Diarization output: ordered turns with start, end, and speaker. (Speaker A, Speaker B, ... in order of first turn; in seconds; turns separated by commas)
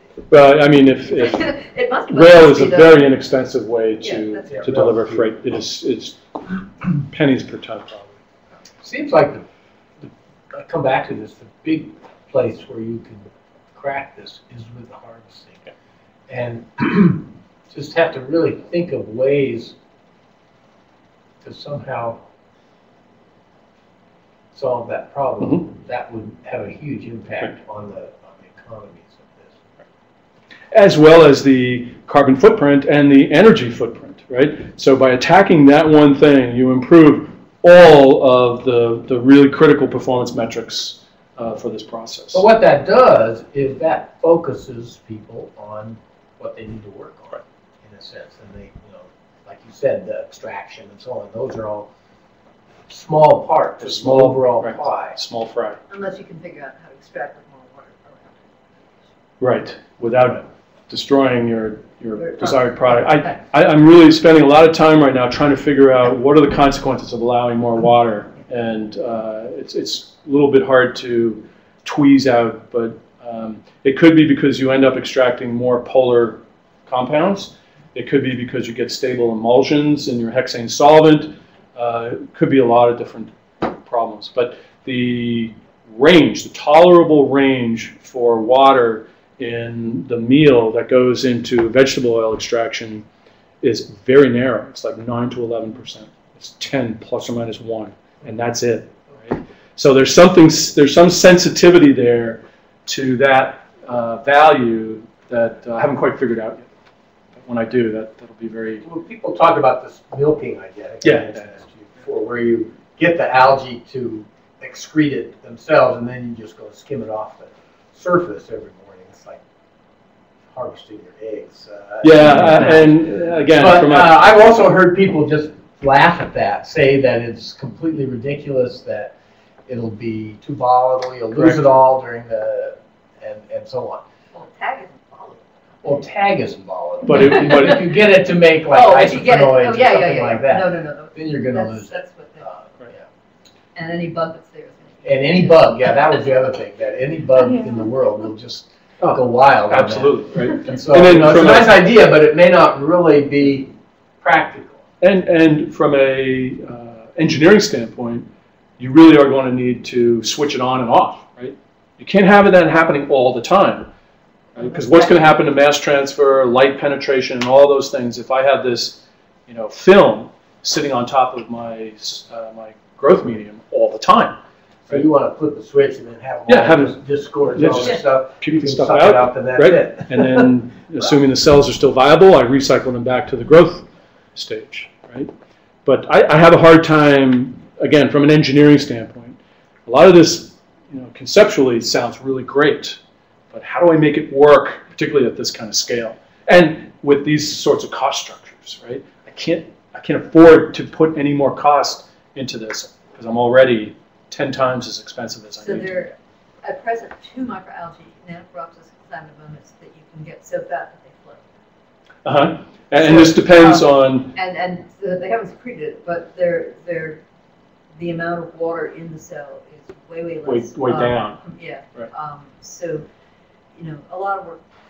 Speaker A: 0.3-8.1, Speaker B: 1.1-3.1, Speaker B: 4.0-4.8, Speaker C: 4.5-5.3, Speaker C: 8.8-9.4, Speaker C: 10.5-15.6, Speaker C: 16.3-19.8, Speaker C: 21.4-22.2, Speaker C: 24.5-29.6, Speaker A: 30.7-42.4, Speaker C: 42.3-51.9, Speaker C: 52.9-55.2, Speaker A: 53.8-55.8, Speaker B: 55.9-59.1, Speaker A: 59.4-93.0, Speaker B: 62.2-63.4, Speaker A: 93.6-106.7, Speaker A: 107.5-108.8, Speaker C: 108.8-119.4, Speaker A: 111.0-111.5, Speaker C: 120.5-129.1, Speaker A: 122.0-124.2, Speaker C: 129.7-134.0, Speaker A: 131.3-131.7, Speaker B: 134.3-136.0, Speaker C: 135.8-143.1, Speaker A: 137.1-138.0, Speaker B: 138.7-142.5, Speaker B: 143.8-145.8, Speaker C: 145.0-154.8, Speaker A: 149.0-151.8, Speaker A: 155.0-158.3, Speaker A: 158.8-163.9, Speaker A: 164.6-174.4, Speaker C: 174.9-180.5, Speaker A: 176.5-177.0, Speaker A: 177.5-185.3, Speaker A: 185.8-193.0, Speaker A: 193.5-205.9, Speaker B: 205.6-211.5, Speaker A: 212.2-214.3, Speaker B: 212.9-217.2, Speaker B: 218.0-223.1, Speaker A: 220.4-221.4, Speaker B: 223.7-224.7